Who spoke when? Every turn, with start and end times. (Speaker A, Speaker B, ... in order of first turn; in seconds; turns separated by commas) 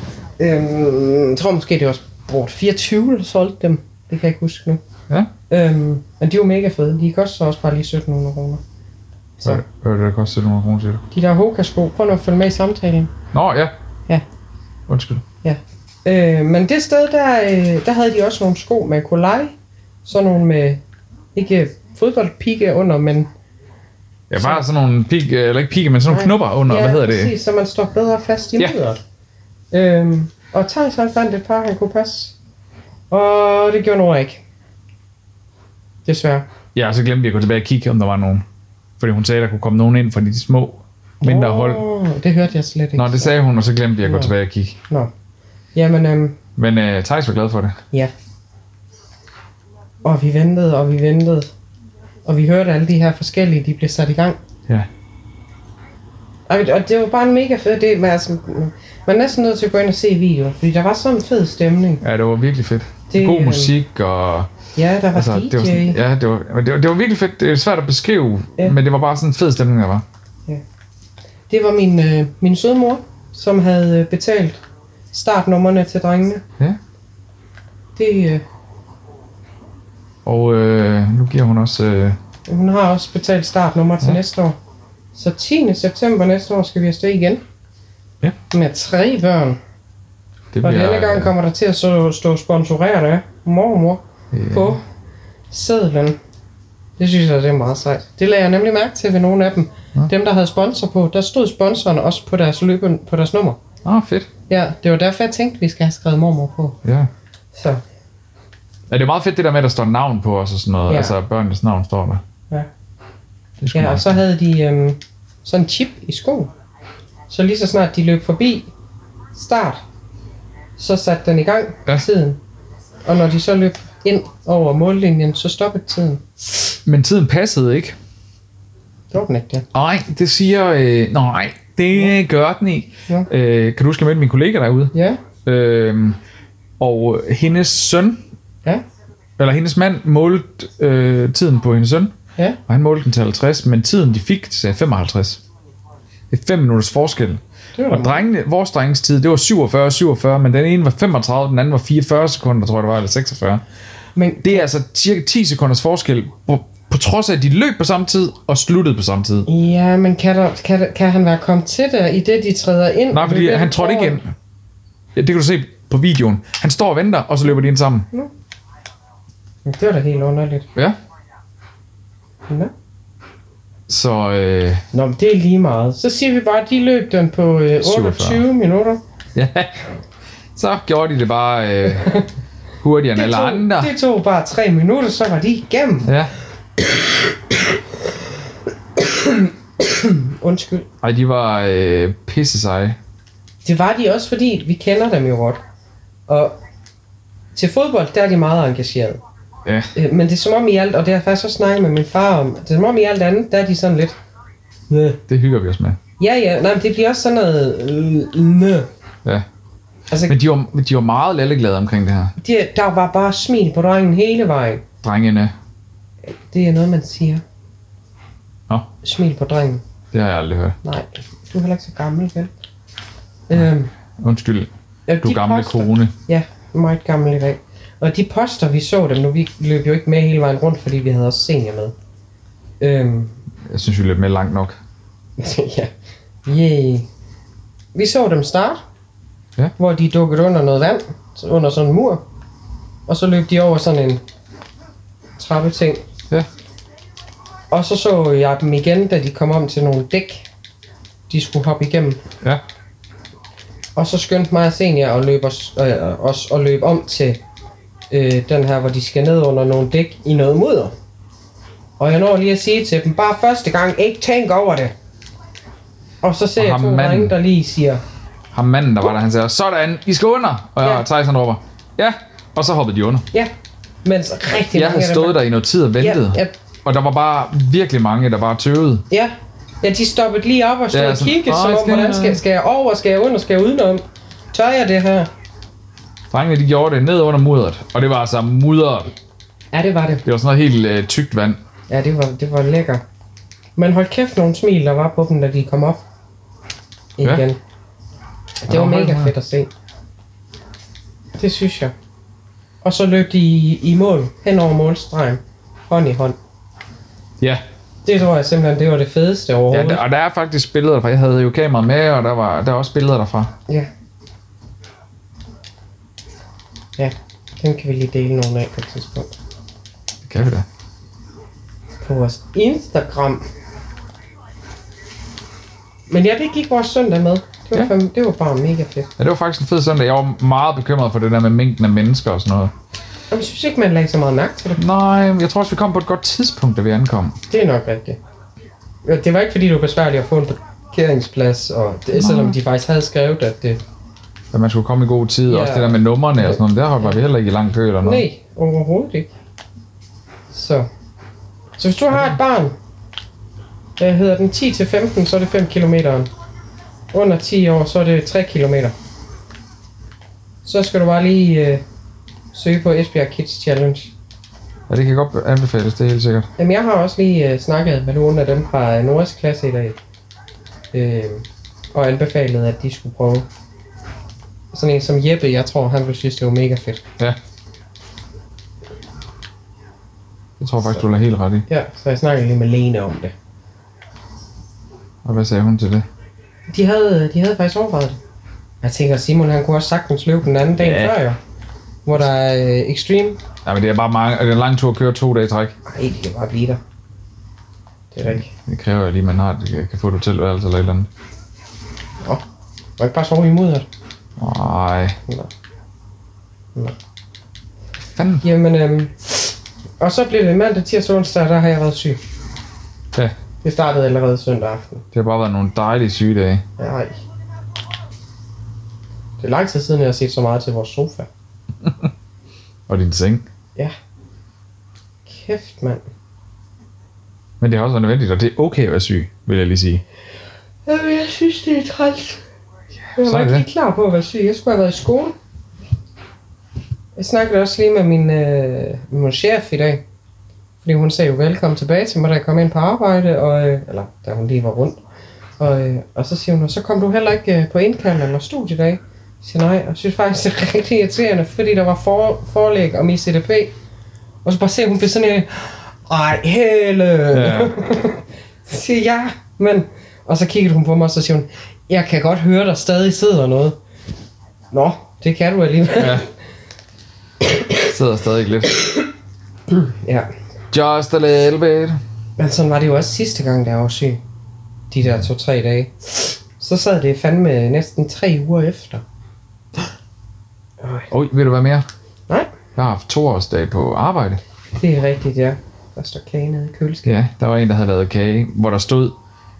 Speaker A: 0.4-4.8, Speaker A: 5.5-8.6, Speaker B: 9.4-11.0, Speaker A: 11.1-13.1, Speaker B: 13.3-13.7, Speaker B: 14.9-15.2, Speaker A: 15.4-19.5, Speaker A: 20.1-20.8, Speaker A: 21.3-23.3, Speaker B: 24.3-27.3, Speaker A: 24.4-24.6, Speaker A: 26.1-29.0, Speaker A: 29.7-32.3, Speaker A: 33.1-34.4, Speaker A: 36.0-36.5, Speaker B: 36.7-38.4, Speaker B: 39.0-41.8, Speaker A: 41.2-43.3, Speaker B: 42.9-44.8, Speaker A: 44.0-44.3, Speaker A: 45.7-46.4, Speaker B: 46.5-47.8, Speaker A: 50.0-51.5, Speaker A: 52.2-54.4, Speaker A: 56.5-62.0, Speaker B: 62.0-64.5, Speaker A: 63.1-63.7, Speaker A: 64.7-66.0, Speaker B: 65.1-70.0, Speaker A: 71.5-74.6, Speaker A: 75.1-76.4, Speaker A: 78.0-78.4, Speaker B: 80.2-82.2, Speaker A: 82.5-84.6, Speaker A: 85.1-87.4, Speaker A: 88.5-89.6, Speaker B: 90.5-91.3, Speaker A: 90.6-94.8, Speaker B: 94.3-94.8, Speaker A: 95.5-96.2, Speaker A: 97.0-103.6, Speaker B: 103.8-104.3, Speaker A: 104.5-106.8, Speaker B: 106.8-107.1, Speaker A: 107.5-107.8, Speaker B: 108.9-112.2, Speaker A: 110.9-111.2, Speaker B: 113.6-114.2, Speaker A: 113.7-116.5, Speaker A: 117.3-118.7, Speaker A: 119.3-119.8, Speaker A: 120.8-122.4, Speaker A: 123.0-126.2, Speaker B: 126.8-128.0, Speaker A: 129.1-129.7, Speaker B: 129.7-134.9, Speaker A: 134.9-135.2, Speaker B: 135.4-136.2, Speaker B: 136.8-138.2, Speaker B: 139.4-142.1, Speaker B: 142.7-145.4, Speaker B: 146.3-153.6, Speaker A: 147.8-148.2, Speaker A: 154.2-154.7, Speaker B: 154.4-159.5, Speaker A: 159.5-164.2, Speaker B: 163.1-164.3, Speaker B: 165.1-168.1, Speaker A: 169.6-170.7, Speaker B: 173.9-174.8, Speaker A: 174.9-179.0, Speaker B: 177.8-178.4, Speaker B: 179.3-179.7, Speaker B: 180.5-182.2, Speaker A: 181.9-182.3, Speaker B: 182.8-183.9, Speaker A: 183.1-186.1, Speaker B: 186.1-186.3, Speaker A: 189.0-190.8, Speaker B: 191.0-193.0, Speaker A: 193.6-195.6, Speaker A: 196.3-196.6, Speaker A: 197.5-199.2, Speaker B: 199.6-199.9, Speaker A: 199.9-204.2, Speaker A: 204.9-205.2, Speaker B: 205.3-206.0, Speaker A: 206.2-208.9, Speaker A: 210.1-210.4, Speaker B: 210.2-212.3, Speaker A: 212.4-214.8, Speaker B: 215.0-215.5, Speaker A: 216.2-217.4, Speaker A: 219.0-219.8, Speaker B: 220.1-220.8, Speaker A: 220.8-222.5, Speaker A: 223.5-223.9, Speaker B: 223.5-224.7, Speaker A: 225.1-231.9, Speaker B: 225.2-226.1, Speaker A: 232.8-233.3, Speaker B: 233.7-234.8, Speaker A: 235.4-235.9, Speaker A: 236.4-237.1, Speaker A: 237.9-238.8, Speaker A: 239.8-242.2, Speaker A: 243.1-244.2, Speaker A: 245.4-246.0, Speaker A: 247.7-250.4, Speaker A: 251.3-252.2, Speaker A: 253.9-257.4, Speaker A: 258.1-260.9, Speaker A: 262.0-264.9, Speaker A: 266.2-268.0, Speaker B: 266.6-267.3, Speaker B: 268.5-273.3, Speaker A: 274.0-275.4, Speaker B: 274.7-279.0, Speaker A: 276.0-276.5, Speaker A: 279.1-285.3, Speaker B: 280.9-282.4, Speaker B: 286.3-289.1, Speaker A: 289.7-290.2, Speaker B: 290.2-291.6, Speaker A: 291.9-293.0, Speaker A: 293.8-296.0, Speaker A: 297.2-297.6, Speaker A: 298.6-299.7, Speaker B: 298.7-299.3, Speaker A: 301.3-301.9, Speaker A: 302.8-306.4, Speaker A: 308.0-310.0, Speaker B: 309.7-313.5, Speaker A: 317.0-319.3, Speaker B: 320.2-320.6, Speaker A: 322.0-323.5, Speaker A: 326.1-329.1, Speaker B: 329.2-332.7, Speaker A: 333.3-334.8, Speaker B: 334.8-337.4, Speaker A: 337.5-338.2, Speaker A: 339.0-343.8, Speaker B: 342.1-342.6, Speaker B: 344.5-348.2, Speaker A: 345.5-347.1, Speaker A: 348.0-349.3, Speaker A: 350.5-350.9, Speaker A: 351.8-352.7, Speaker A: 354.0-356.3, Speaker A: 357.1-358.9, Speaker A: 360.6-361.8, Speaker A: 362.5-364.1, Speaker B: 364.9-366.5, Speaker A: 366.6-370.0, Speaker A: 370.9-373.5, Speaker A: 374.7-377.0, Speaker B: 380.6-381.6, Speaker A: 381.7-383.3, Speaker B: 385.2-386.1, Speaker A: 386.7-388.2, Speaker A: 388.8-391.4, Speaker B: 390.8-391.2, Speaker A: 392.0-393.4, Speaker B: 393.6-395.7, Speaker A: 395.8-396.8, Speaker A: 398.1-398.5, Speaker B: 398.3-401.1, Speaker A: 403.0-403.9, Speaker B: 404.4-405.2, Speaker B: 408.1-408.4, Speaker A: 408.4-412.2, Speaker A: 413.6-415.0, Speaker B: 415.1-416.6, Speaker A: 416.8-417.2, Speaker A: 419.4-421.3, Speaker B: 422.9-423.4, Speaker A: 425.2-426.0, Speaker B: 427.6-430.0, Speaker A: 430.9-432.4, Speaker B: 433.1-433.6, Speaker A: 433.1-435.3, Speaker A: 437.1-440.0, Speaker A: 440.8-445.0, Speaker A: 445.6-453.7, Speaker A: 454.4-463.8, Speaker B: 457.3-457.7, Speaker A: 464.7-466.3, Speaker B: 466.0-466.3, Speaker B: 467.8-468.8, Speaker A: 469.7-470.3, Speaker B: 470.7-472.0, Speaker A: 472.4-474.2, Speaker A: 474.9-479.0, Speaker A: 480.8-481.1, Speaker B: 481.1-481.9, Speaker B: 482.8-484.4, Speaker A: 484.7-487.1, Speaker B: 487.0-489.1